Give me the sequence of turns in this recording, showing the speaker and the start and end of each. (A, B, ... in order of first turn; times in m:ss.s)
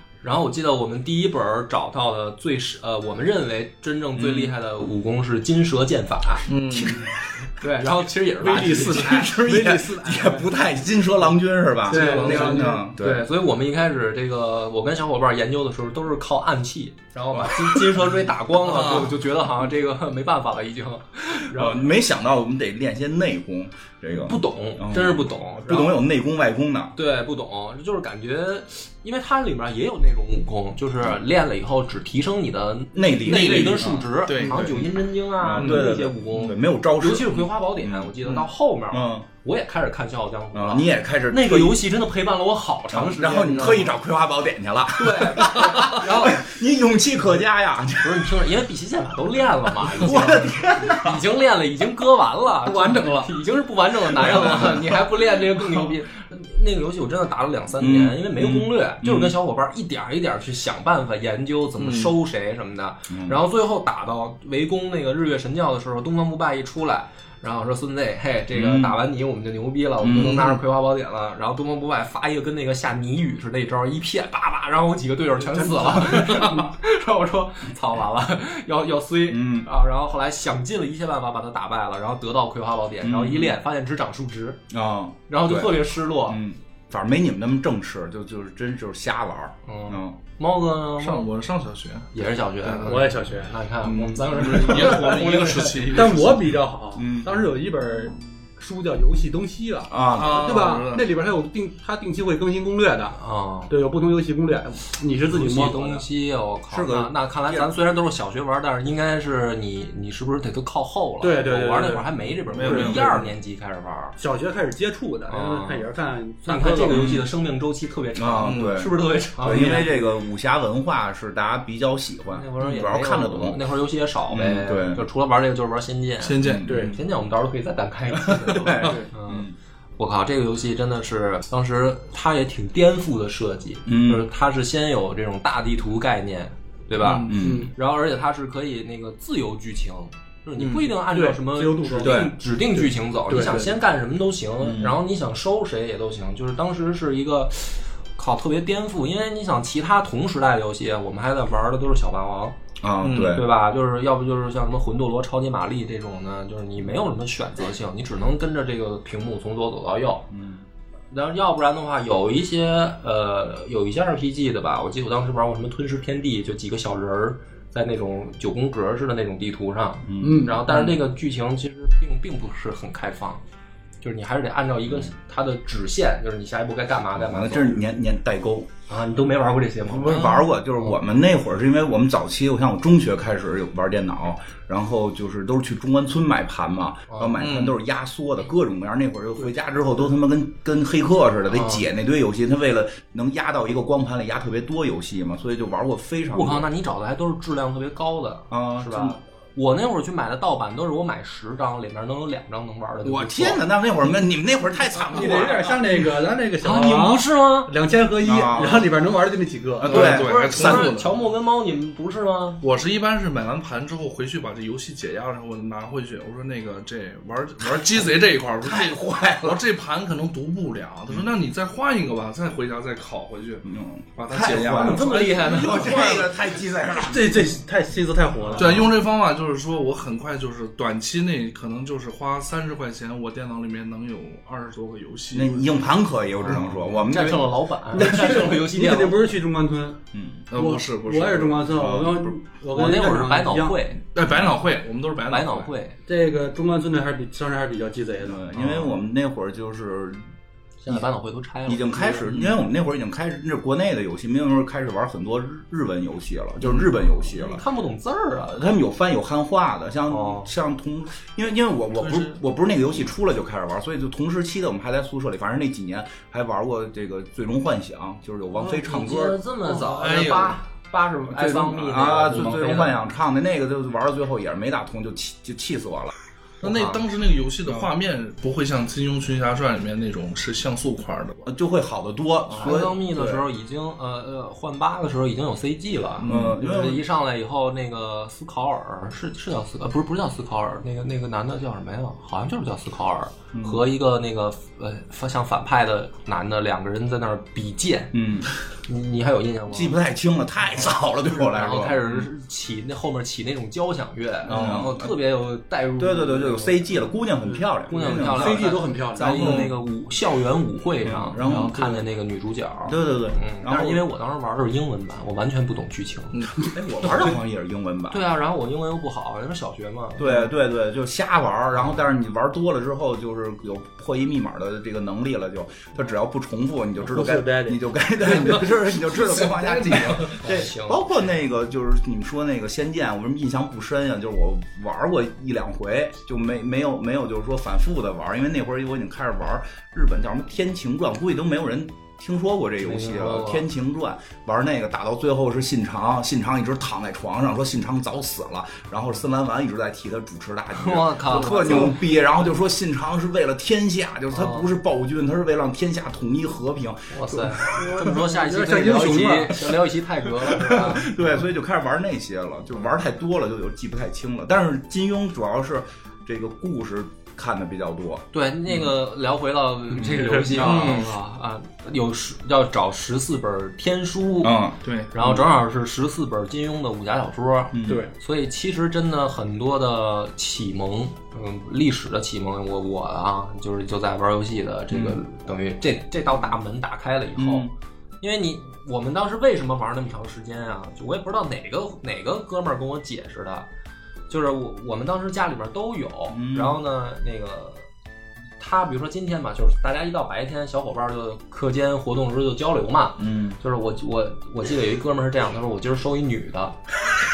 0:00.2-0:06.5 A
0:04.1-0:04.6 B
0:06.5-0:07.1 C
0:06.7-0:07.4 B
0:07.6-0:09.4 A
0:08.4-0:10.5 D
0:08.9-0:13.2 B
0:11.9-0:12.9 D
0:11.9-0:12.7 C
0:11.9-0:21.9 A
0:17.3-0:18.2 B
0:18.6-0:19.2 C
0:21.4-0:27.0 B
0:24.1-0:26.0 A
0:27.0-0:44.0 A
0:32.9-0:39.3 B
0:33.3-0:34.7 C
0:33.4-0:34.7 D
0:40.5-0:41.8 B
0:42.9-0:48.4 B
0:45.0-0:46.4 A
0:48.0-1:24.6 A
0:49.9-0:51.2 B
0:52.6-0:53.3 D
0:54.1-0:55.9 B
0:57.8-0:59.4 B
1:01.8-1:02.1 C
1:03.1-1:03.4 B
1:08.5-1:09.0 B
1:10.0-1:10.6 B
1:15.7-1:16.4 B
1:19.3-1:19.7 B
1:23.0-1:23.6 B
1:24.7-1:30.2 B
1:25.3-1:26.4 A
1:29.7-1:31.3 A
1:31.0-1:32.1 C
1:32.1-1:36.0 A
1:32.6-1:33.0 C
1:32.8-1:35.1 D
1:33.8-1:34.4 B
1:34.3-1:36.6 C
1:35.9-1:43.2 D
1:37.0-1:37.4 B
1:39.9-1:40.6 B
1:40.1-1:41.1 C
1:43.2-1:43.7 A
1:43.7-1:46.0 D
1:45.3-1:54.2 A
1:46.7-1:47.7 B
1:51.2-1:53.2 D
1:52.5-1:53.2 C
1:54.2-1:57.1 D
1:55.3-1:55.9 A
1:56.5-1:59.9 A
1:56.9-1:57.3 B
1:58.2-2:03.6 B
1:58.5-1:58.9 C
1:59.4-2:00.0 D
2:02.3-2:40.3 A
2:04.3-2:05.1 B
2:06.2-2:06.8 C
2:06.4-2:07.0 B
2:06.7-2:07.0 D
2:08.1-2:09.6 B
2:08.8-2:09.1 D
2:13.9-2:14.2 B
2:17.0-2:17.4 C
2:17.1-2:17.7 B
2:17.4-2:17.7 D
2:20.6-2:23.8 D
2:22.0-2:22.3 B
2:24.6-2:25.0 B
2:32.8-2:33.5 B
2:33.0-2:33.4 C
2:40.3-2:40.6 B
2:41.1-2:53.4 A
2:50.1-2:50.9 B
2:50.2-2:50.6 D
2:54.0-2:57.8 A
2:57.2-2:58.7 B
2:58.9-3:01.0 A
2:59.8-3:16.7 B
3:07.1-3:07.4 A
3:07.4-3:07.8 C
3:11.5-3:11.8 A
3:16.3-3:23.6 A
3:18.5-3:19.2 B
3:23.0-3:25.8 B
3:25.1-3:30.1 D
3:26.6-3:27.7 A
3:28.2-3:28.9 B
3:29.8-3:31.0 B
3:29.8-3:31.1 C
3:29.9-3:32.6 A
3:32.6-3:46.3 C
3:38.6-3:39.6 B
3:43.6-3:47.5 B
3:44.4-3:46.2 A
3:47.0-3:48.9 D
3:48.6-3:55.8 C
3:55.3-3:58.3 B
3:57.1-3:59.2 A
3:57.9-4:00.0 D
4:00.1-4:00.5 B
4:00.5-4:02.1 C
4:00.5-4:03.8 D
4:01.8-4:02.3 B
4:02.7-4:04.0 A
4:04.2-4:05.7 C
4:04.2-4:04.5 B
4:05.3-4:06.0 A
4:06.1-4:08.5 D
4:08.2-4:10.2 B
4:10.8-4:12.3 A
4:11.6-4:17.6 B
4:16.6-4:18.7 A
4:18.5-4:29.4 B
4:20.1-4:20.5 A
4:22.0-4:22.4 C
4:28.5-4:33.0 A
4:29.7-4:30.6 C
4:31.3-4:36.1 B
4:36.6-4:37.0 A
4:36.6-4:41.4 C
4:41.4-4:43.4 B
4:42.5-4:58.1 A
4:46.2-4:47.0 B
4:53.5-4:53.8 B
4:58.1-4:58.5 B
4:58.9-5:00.0 A
4:59.7-5:02.3 B
5:01.5-5:06.8 A
5:04.4-5:05.1 B
5:06.0-5:08.8 B
5:07.9-5:16.4 A
5:08.3-5:09.6 D
5:09.4-5:09.7 B
5:11.0-5:12.0 B
5:12.9-5:14.0 B
5:16.7-5:18.2 B
5:17.0-5:17.3 A
5:18.1-5:20.3 A
5:20.2-5:58.0 B
5:21.8-5:22.0 A
5:27.0-5:28.6 D
5:29.2-5:30.4 C
5:30.3-5:31.1 A
5:42.8-5:43.7 A
5:50.7-5:52.0 A
5:54.3-5:54.7 A
5:57.1-6:01.1 A
5:57.6-5:59.8 D
6:00.5-6:08.9 B
6:08.3-6:27.7 A
6:10.0-6:10.8 B
6:10.5-6:11.1 C
6:14.4-6:15.4 B
6:14.8-6:15.1 C
6:17.7-6:18.1 B
6:17.9-6:18.1 D
6:24.9-6:25.2 B
6:27.4-6:27.7 B
6:28.2-6:33.7 A
6:34.3-6:37.8 A
6:36.3-6:36.8 B
6:38.6-6:46.8 A
6:43.2-6:43.6 B